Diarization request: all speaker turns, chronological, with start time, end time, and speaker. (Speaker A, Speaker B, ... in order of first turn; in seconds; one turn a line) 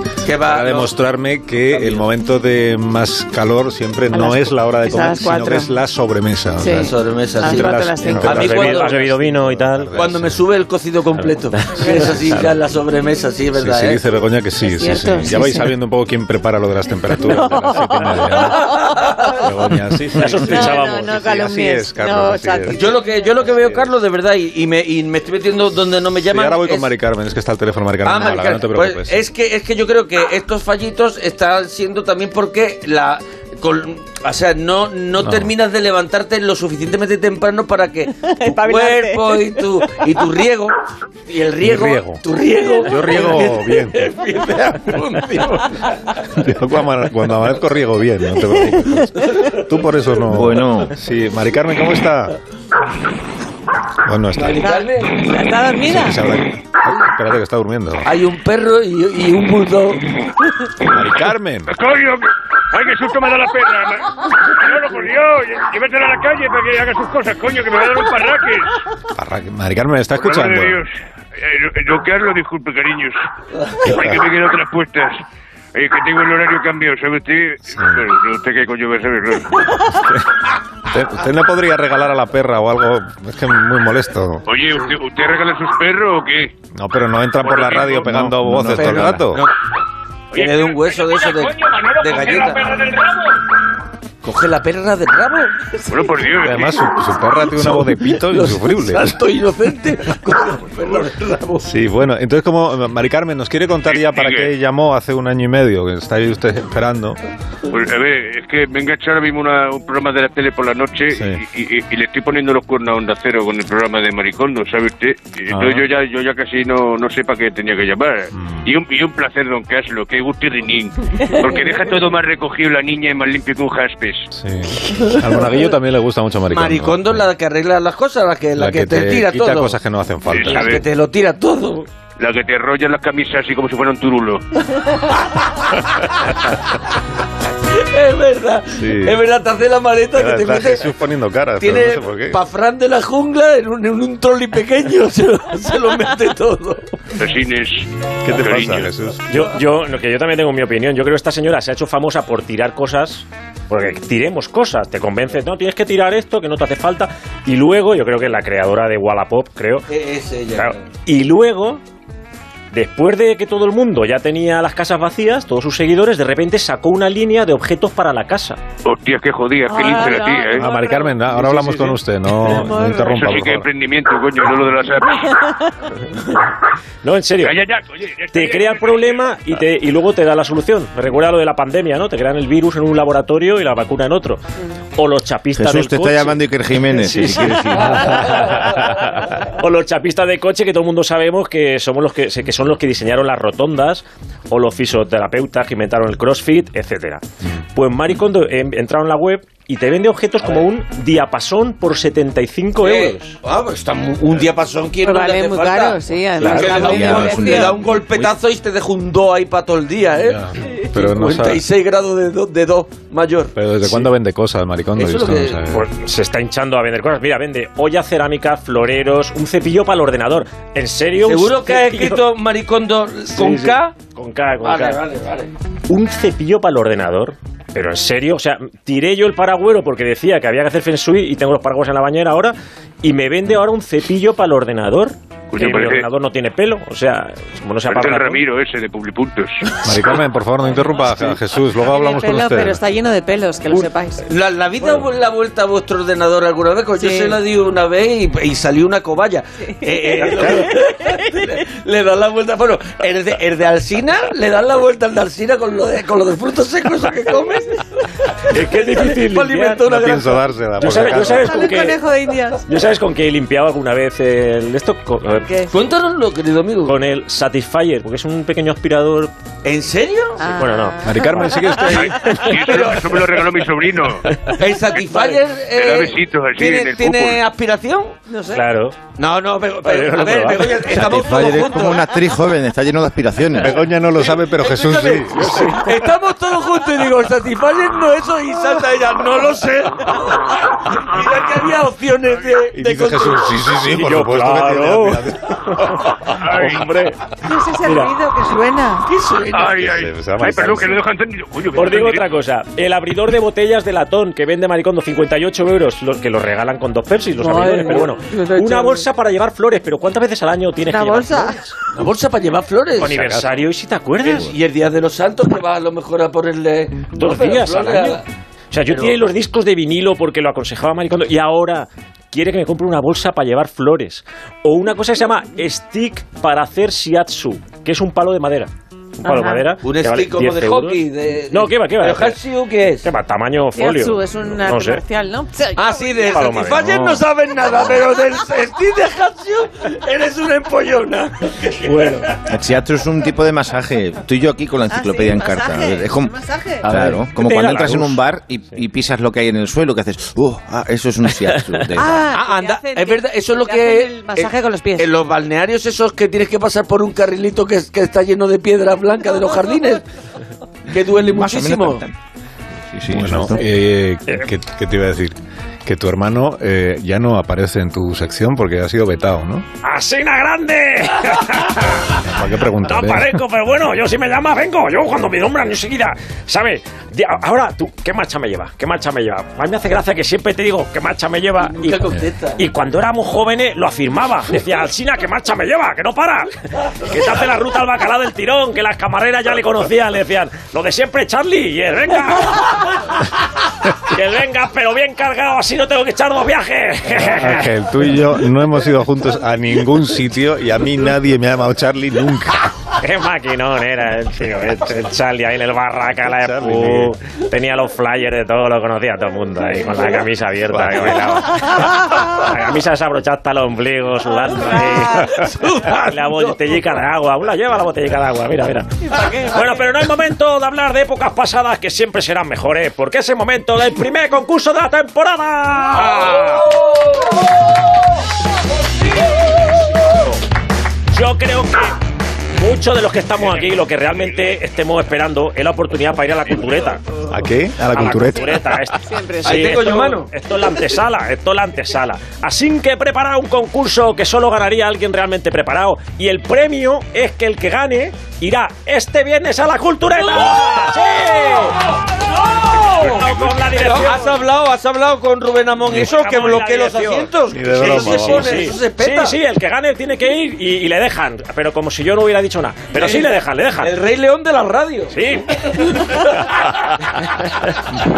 Speaker A: 0.2-1.0
Speaker B: 0.4-10.4
Speaker A: 1.6-2.1
Speaker C: 4.1-5.7
Speaker C: 6.6-8.5
Speaker A: 6.7-8.9
Speaker D: 8.2-9.9
Speaker A: 9.9-14.0
Speaker D: 11.2-11.8
Speaker B: 13.5-18.8
Speaker C: 14.6-15.8
Speaker C: 17.2-19.4
Speaker B: 19.4-22.8
Speaker D: 20.2-21.1
Speaker C: 20.3-22.8
Speaker A: 22.7-26.9
Speaker B: 26.2-29.2
Speaker A: 28.0-40.8
Speaker B: 35.2-35.5
Speaker C: 38.2-39.9
Speaker A: 41.3-46.2
Speaker B: 41.6-42.2
Speaker B: 42.8-44.1
Speaker B: 46.4-52.4
Speaker E: 50.3-50.9
Speaker B: 54.1-54.6
Speaker A: 54.3-55.3
Speaker C: 54.6-56.2
Speaker B: 55.8-58.1
Speaker A: 58.0-60.1
Speaker B: 60.9-61.7
Speaker F: 61.7-68.8
Speaker B: 69.2-70.8
Speaker F: 70.2-73.2
Speaker F: 73.8-75.2
Speaker B: 73.8-74.3
Speaker F: 75.8-79.6
Speaker B: 77.7-78.0
Speaker B: 80.9-84.5
Speaker F: 84.5-86.5
Speaker B: 86.8-89.4
Speaker F: 87.4-88.1
Speaker E: 88.0-89.1
Speaker A: 88.7-89.5
Speaker A: 90.3-92.6
Speaker F: 90.3-93.3
Speaker A: 94.2-95.8
Speaker F: 95.9-96.8
Speaker B: 96.3-99.2
Speaker A: 97.3-101.7
Speaker B: 101.6-107.2
Speaker F: 103.9-104.5
Speaker F: 107.7-124.3
Speaker B: 111.1-111.4
Speaker B: 115.5-115.8
Speaker B: 118.3-118.7
Speaker B: 124.3-127.3
Speaker A: 126.5-129.8
Speaker B: 128.6-130.8
Speaker F: 130.3-130.8
Speaker A: 130.3-131.9
Speaker F: 132.2-134.4
Speaker A: 137.6-140.9
Speaker B: 138.8-139.2
Speaker B: 140.2-142.4
Speaker A: 141.6-146.9
Speaker F: 147.2-148.9
Speaker B: 148.2-149.2
Speaker D: 149.3-159.8
Speaker A: 159.9-160.8
Speaker D: 160.6-161.8
Speaker D: 162.7-168.6
Speaker F: 168.8-170.6
Speaker C: 169.7-171.1
Speaker B: 170.6-173.7
Speaker D: 171.3-172.0
Speaker C: 172.5-173.3
Speaker F: 173.2-175.4
Speaker D: 177.0-177.6
Speaker F: 177.4-179.3
Speaker D: 178.3-184.4
Speaker D: 185.0-186.4
Speaker E: 185.6-188.2
Speaker D: 186.9-197.2
Speaker D: 197.8-203.2
Speaker A: 202.8-213.6
Speaker C: 205.0-207.8
Speaker D: 206.4-206.8
Speaker E: 206.7-207.7
Speaker B: 210.3-211.6
Speaker B: 213.6-215.9
Speaker A: 215.0-215.6
Speaker D: 215.7-222.2
Speaker A: 221.2-223.9
Speaker D: 223.3-225.0
Speaker A: 224.6-225.5
Speaker D: 225.9-238.4
Speaker F: 235.5-236.1
Speaker F: 237.9-239.7
Speaker B: 239.8-242.8
Speaker C: 241.8-244.2
Speaker A: 243.7-260.4
Speaker C: 247.0-247.4
Speaker C: 249.8-251.4
Speaker D: 250.2-250.7
Speaker D: 258.5-259.8
Speaker B: 259.8-261.5
Speaker D: 260.8-262.0
Speaker C: 261.2-262.6
Speaker D: 262.7-265.6
Speaker A: 265.7-266.9
Speaker D: 266.9-269.3
Speaker A: 269.6-270.5
Speaker C: 270.4-271.9
Speaker D: 270.6-271.7
Speaker B: 271.0-272.4
Speaker F: 272.0-274.2
Speaker A: 272.6-273.1
Speaker A: 274.6-278.2
Speaker F: 275.7-277.4
Speaker C: 278.3-278.6
Speaker D: 278.5-279.0
Speaker A: 279.2-282.2
Speaker D: 279.8-281.0
Speaker E: 281.0-283.8
Speaker B: 283.6-285.7
Speaker A: 284.1-293.5
Speaker D: 285.3-286.0
Speaker B: 292.7-296.1
Speaker D: 293.9-297.2
Speaker F: 296.5-296.8
Speaker C: 297.4-299.1
Speaker D: 297.8-298.1
Speaker A: 299.1-299.9
Speaker F: 299.5-302.2
Speaker B: 299.7-301.1
Speaker D: 301.8-311.7
Speaker C: 307.4-309.1
Speaker C: 310.9-311.6
Speaker A: 311.9-313.2
Speaker D: 313.0-314.5
Speaker B: 313.0-313.6
Speaker A: 314.2-318.2
Speaker D: 317.1-332.4
Speaker A: 318.9-319.2
Speaker C: 329.2-329.7
Speaker A: 329.8-333.1
Speaker D: 333.0-335.0
Speaker C: 333.8-336.4
Speaker A: 335.8-342.4
Speaker D: 336.3-337.2
Speaker D: 341.8-342.3
Speaker E: 342.5-352.3
Speaker C: 344.9-346.9
Speaker D: 347.4-348.2
Speaker C: 351.9-355.1
Speaker A: 352.3-360.0
Speaker A: 360.9-362.0
Speaker E: 361.3-362.1
Speaker E: 362.9-363.5
Speaker B: 363.1-369.7
Speaker D: 369.8-372.2
Speaker B: 372.2-373.4
Speaker D: 372.8-382.0
Speaker A: 381.7-382.6
Speaker D: 382.6-393.2
Speaker D: 393.9-397.7
Speaker B: 397.2-402.8
Speaker D: 403.0-426.6
Speaker B: 406.2-407.1
Speaker B: 410.7-411.4
Speaker A: 415.2-416.8
Speaker C: 419.0-419.9
Speaker A: 426.0-426.5
Speaker D: 431.1-432.0
Speaker D: 432.6-437.1
Speaker B: 437.3-438.8
Speaker D: 437.9-451.8
Speaker C: 439.1-439.8
Speaker A: 439.4-440.3
Speaker A: 450.4-450.7
Speaker A: 452.1-453.2
Speaker D: 452.8-454.4
Speaker F: 453.1-453.5
Speaker A: 453.8-459.4
Speaker D: 455.9-463.9
Speaker B: 457.5-458.7
Speaker A: 462.9-466.6
Speaker D: 465.1-466.6
Speaker D: 467.2-467.8